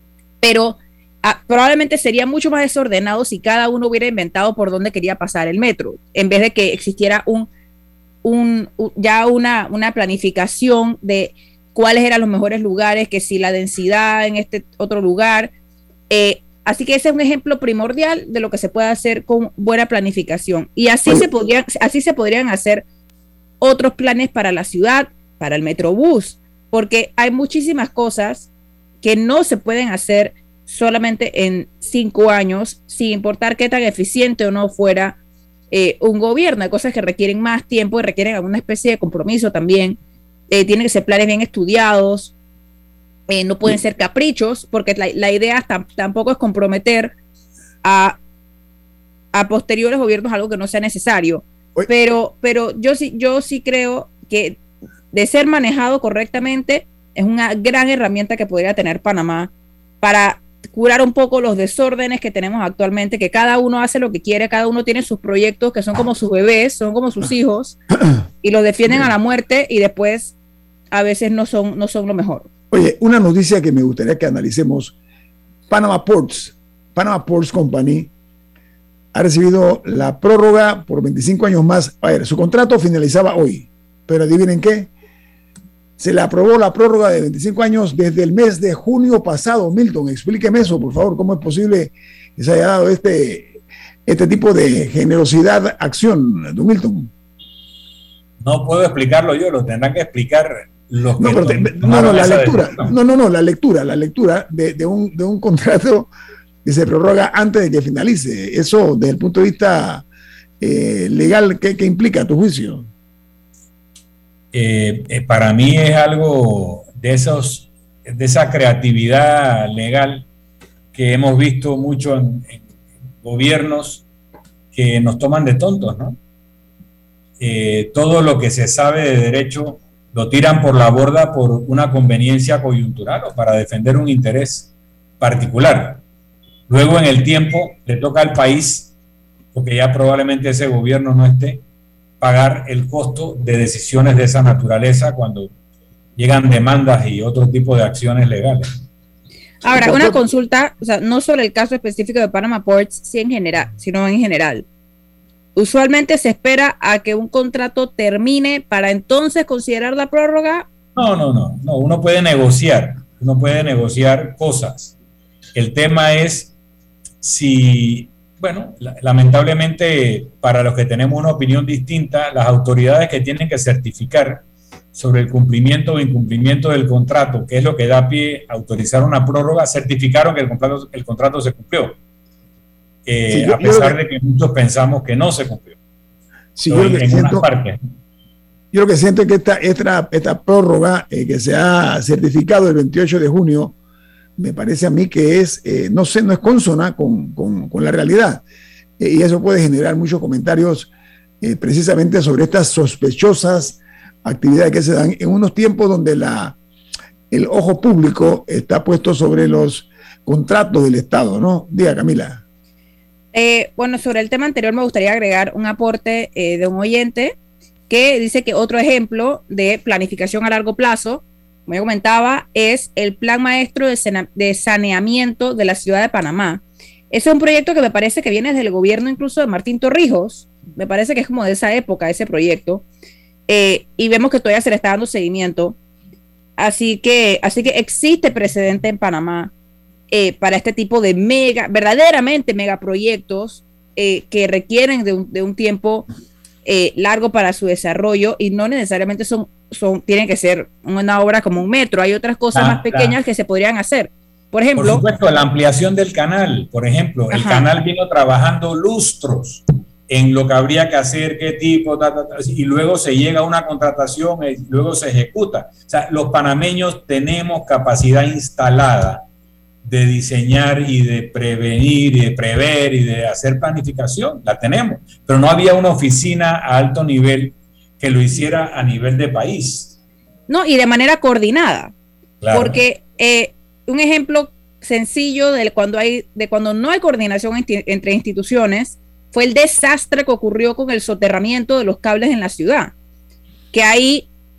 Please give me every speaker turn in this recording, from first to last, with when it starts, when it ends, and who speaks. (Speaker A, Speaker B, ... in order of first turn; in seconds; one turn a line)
Speaker A: 0.4-7.5
Speaker A: 8.2-15.5
Speaker A: 16.1-22.8
Speaker A: 23.6-28.5
Speaker A: 29.0-35.2
Speaker A: 35.7-40.0
Speaker A: 40.5-42.3
Speaker A: 43.3-47.1
Speaker A: 47.8-48.2
Speaker A: 49.3-54.6
Speaker A: 55.1-67.8
Speaker A: 68.4-70.3
Speaker A: 70.9-72.5
Speaker B: 72.7-74.9
Speaker B: 75.7-78.1
Speaker B: 79.1-84.9
Speaker B: 86.0-97.1
Speaker C: 98.4-102.9
Speaker B: 101.2-106.1
Speaker B: 106.6-110.0
Speaker B: 110.6-112.9
Speaker C: 114.5-120.2
Speaker C: 120.9-122.6
Speaker C: 123.2-124.0
Speaker C: 124.7-126.2
Speaker C: 127.4-136.0
Speaker C: 136.7-138.9
Speaker C: 139.5-141.6
Speaker C: 142.2-145.5
Speaker C: 146.2-148.6
Speaker A: 149.6-154.7
Speaker B: 149.8-150.2
Speaker A: 155.6-160.7
Speaker C: 160.9-164.9
Speaker C: 165.5-166.5
Speaker C: 167.2-174.4
Speaker C: 174.9-182.0
Speaker C: 183.1-185.8
Speaker B: 183.3-184.0
Speaker B: 186.6-187.4
Speaker C: 186.7-187.8
Speaker B: 188.7-193.7
Speaker B: 194.4-198.4
Speaker B: 199.0-200.9
Speaker B: 201.4-206.6
Speaker B: 207.3-212.4
Speaker A: 213.3-217.4
Speaker A: 217.9-232.8
Speaker A: 233.5-235.8
Speaker A: 236.6-239.5
Speaker A: 240.1-246.1
Speaker A: 246.6-255.0
Speaker C: 252.5-253.1
Speaker C: 254.8-269.2
Speaker A: 257.3-257.7
Speaker C: 269.8-279.9
Speaker A: 280.5-281.9
Speaker C: 282.4-282.8
Speaker A: 282.5-292.9
Speaker A: 293.7-294.3